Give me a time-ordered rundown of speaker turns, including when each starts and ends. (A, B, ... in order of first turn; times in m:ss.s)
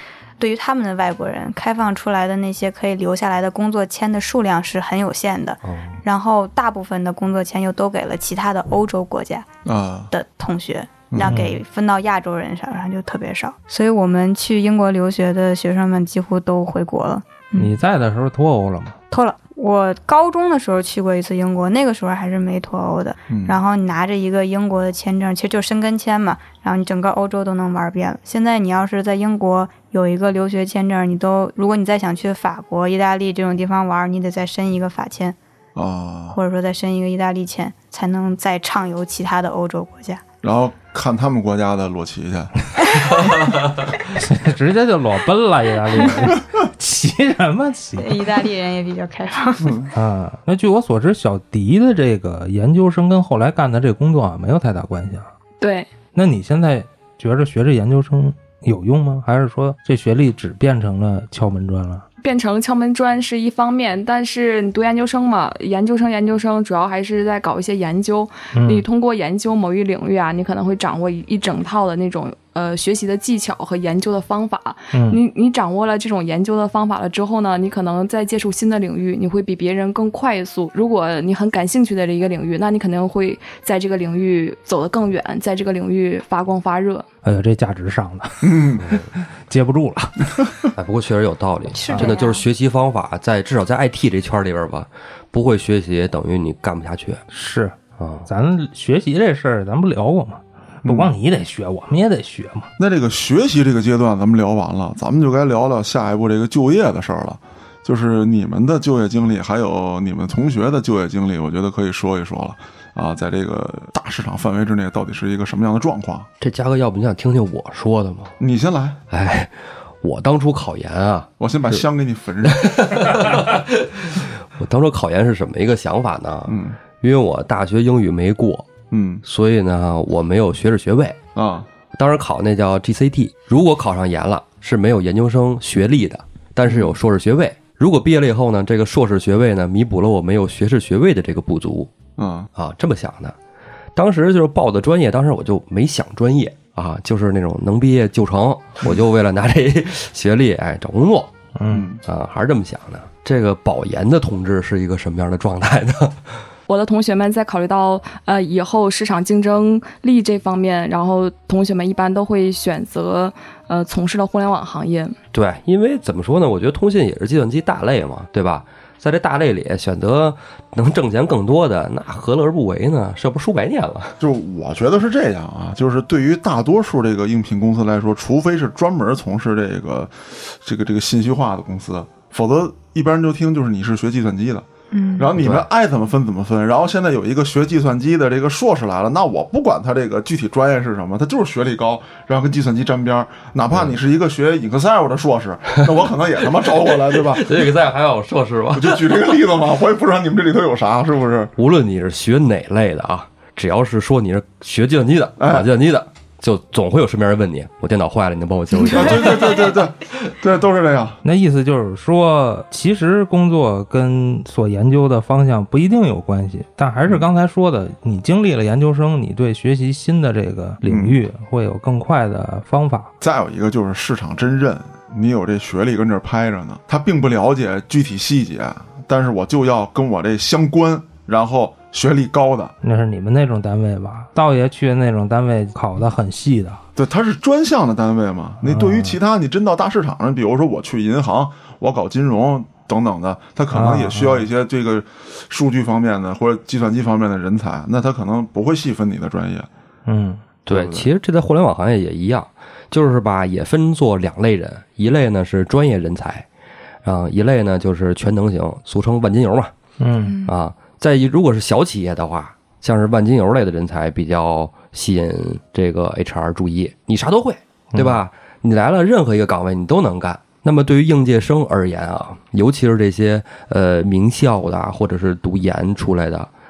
0:00.4-0:09.5 A
0:05.6-0:06.0 B
0:09.6-0:10.1 C
0:10.1-0:17.7 A
0:11.1-0:11.4 C
0:11.2-0:11.5 D
0:17.6-0:19.0 D
0:19.1-0:35.4 A
0:23.3-0:23.6 C
0:35.8-0:36.4 C
0:36.3-0:40.2 A
0:40.4-0:42.5 C
0:44.1-0:48.2 D
0:48.0-0:49.8 A
0:49.6-0:49.9 C
0:49.9-0:55.3 D
0:55.6-0:55.9 E
0:56.1-1:02.1 D
1:02.2-1:27.1 E
1:08.5-1:08.8 D
1:14.9-1:15.2 D
1:27.2-1:30.5 D
1:28.4-1:28.8 C
1:28.8-1:29.1 B
1:30.8-1:37.2 B
1:31.7-1:32.4 A
1:31.9-1:32.2 D
1:37.3-1:42.7 D
1:38.0-1:38.3 B
1:40.9-1:41.1 C
1:42.8-1:56.3 C
1:56.4-1:58.3 B
1:58.4-1:59.0 C
1:59.1-2:01.8 B
2:01.4-2:03.2 C
2:02.4-2:08.7 B
2:06.5-2:06.8 C
2:08.9-2:09.2 C
2:09.2-2:11.2 B
2:11.4-2:11.7 C
2:11.9-2:22.0 B
2:16.6-2:17.0 C
2:22.2-2:22.5 C
2:22.6-2:23.4 B
2:24.0-2:31.3 B
2:31.6-2:31.9 D
2:31.7-2:32.0 C
2:32.0-2:36.3 B
2:36.7-2:45.2 E
2:45.3-2:54.2 B
2:54.2-3:17.7 C
3:04.9-3:05.3 A
3:05.4-3:05.7 B
3:17.2-3:19.3 B
3:18.7-3:21.5 C
3:21.6-3:29.7 B
3:25.4-3:25.7 C
3:28.7-3:29.8 A
3:28.9-3:31.2 C
3:31.2-3:43.1 D
3:40.8-3:41.2 C
3:43.2-3:52.7 C
3:52.8-3:56.8 D
3:57.0-4:09.7 C
3:58.6-3:59.2 D
4:03.7-4:04.5 D
4:10.1-4:10.4 D
4:10.7-4:16.5 B
4:10.7-4:11.1 C
4:17.0-4:19.7 B
4:20.0-4:20.4 D
4:20.2-4:20.5 A
4:20.4-4:36.5 B